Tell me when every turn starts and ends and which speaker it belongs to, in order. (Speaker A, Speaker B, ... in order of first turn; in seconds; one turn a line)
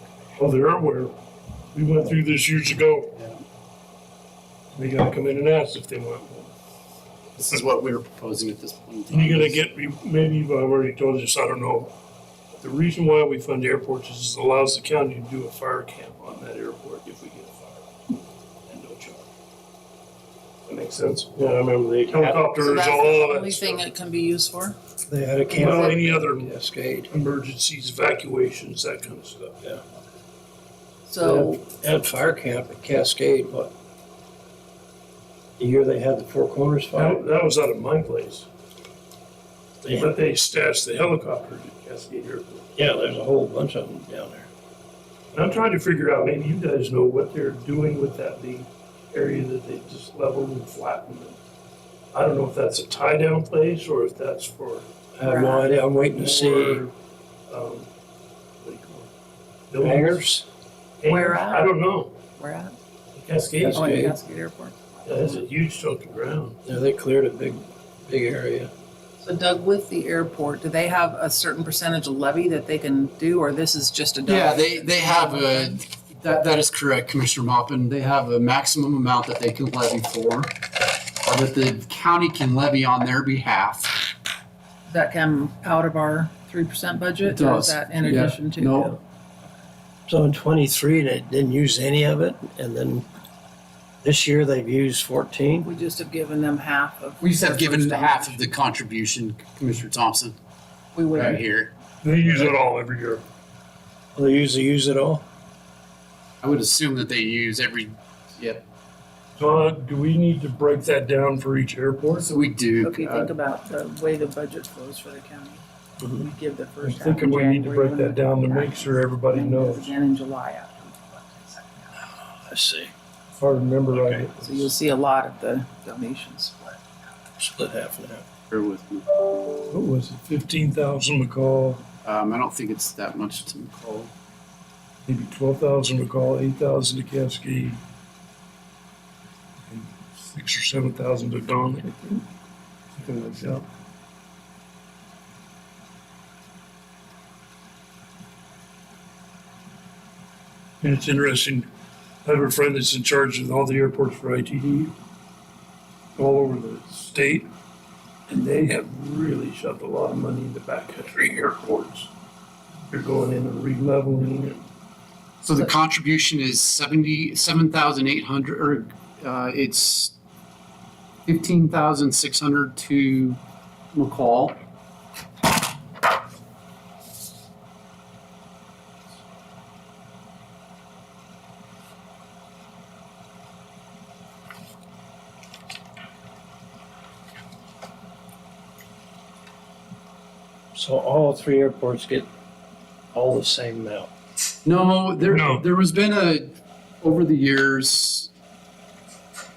Speaker A: 0.4-1.1
Speaker A: 1.7-3.1
Speaker B: 3.1-3.4
Speaker A: 4.7-6.5
Speaker B: 7.4-9.6
Speaker A: 9.1-11.9
Speaker A: 12.5-19.3
Speaker A: 20.6-23.8
Speaker C: 21.4-22.4
Speaker D: 22.6-24.8
Speaker C: 25.1-27.1
Speaker A: 25.5-26.5
Speaker D: 25.6-26.0
Speaker A: 27.1-29.6
Speaker D: 31.1-31.6
Speaker C: 31.2-33.7
Speaker C: 35.6-37.2
Speaker A: 36.9-38.5
Speaker A: 39.8-42.7
Speaker C: 42.8-44.5
Speaker A: 45.3-51.4
Speaker A: 52.1-54.9
Speaker C: 55.1-56.9
Speaker D: 55.2-55.7
Speaker A: 56.1-56.9
Speaker A: 57.5-57.9
Speaker A: 58.6-59.1
Speaker A: 59.7-60.3
Speaker C: 59.8-60.5
Speaker A: 61.0-62.1
Speaker D: 61.1-61.7
Speaker D: 62.4-62.7
Speaker A: 63.1-63.9
Speaker C: 63.6-64.2
Speaker D: 63.7-65.4
Speaker A: 65.0-66.6
Speaker C: 66.6-68.7
Speaker D: 69.2-75.8
Speaker B: 74.2-80.5
Speaker B: 81.1-84.0
Speaker D: 84.9-89.0
Speaker B: 87.2-89.0
Speaker C: 90.1-93.0
Speaker C: 94.0-95.7
Speaker D: 95.6-98.5
Speaker B: 97.2-100.3
Speaker D: 100.9-101.4
Speaker B: 101.1-101.7
Speaker A: 102.0-103.2
Speaker C: 104.1-105.2
Speaker B: 106.4-108.6
Speaker A: 109.4-112.3
Speaker B: 112.2-113.3
Speaker D: 112.8-122.0
Speaker A: 116.8-119.9
Speaker C: 122.0-122.9
Speaker A: 123.3-124.7
Speaker C: 123.9-124.2
Speaker D: 124.4-126.8
Speaker C: 127.4-128.2
Speaker B: 128.5-129.1
Speaker A: 129.7-131.8
Speaker B: 132.0-134.1
Speaker A: 135.1-137.8
Speaker A: 139.7-142.2
Speaker A: 143.0-143.6
Speaker A: 150.8-151.7
Speaker A: 152.2-154.9
Speaker A: 156.2-157.5
Speaker A: 158.3-162.1
Speaker A: 162.9-164.6
Speaker B: 165.4-170.1
Speaker B: 171.2-173.4
Speaker B: 173.9-174.6
Speaker C: 190.7-192.3
Speaker C: 193.1-194.1
Speaker B: 194.6-198.3
Speaker A: 195.2-195.6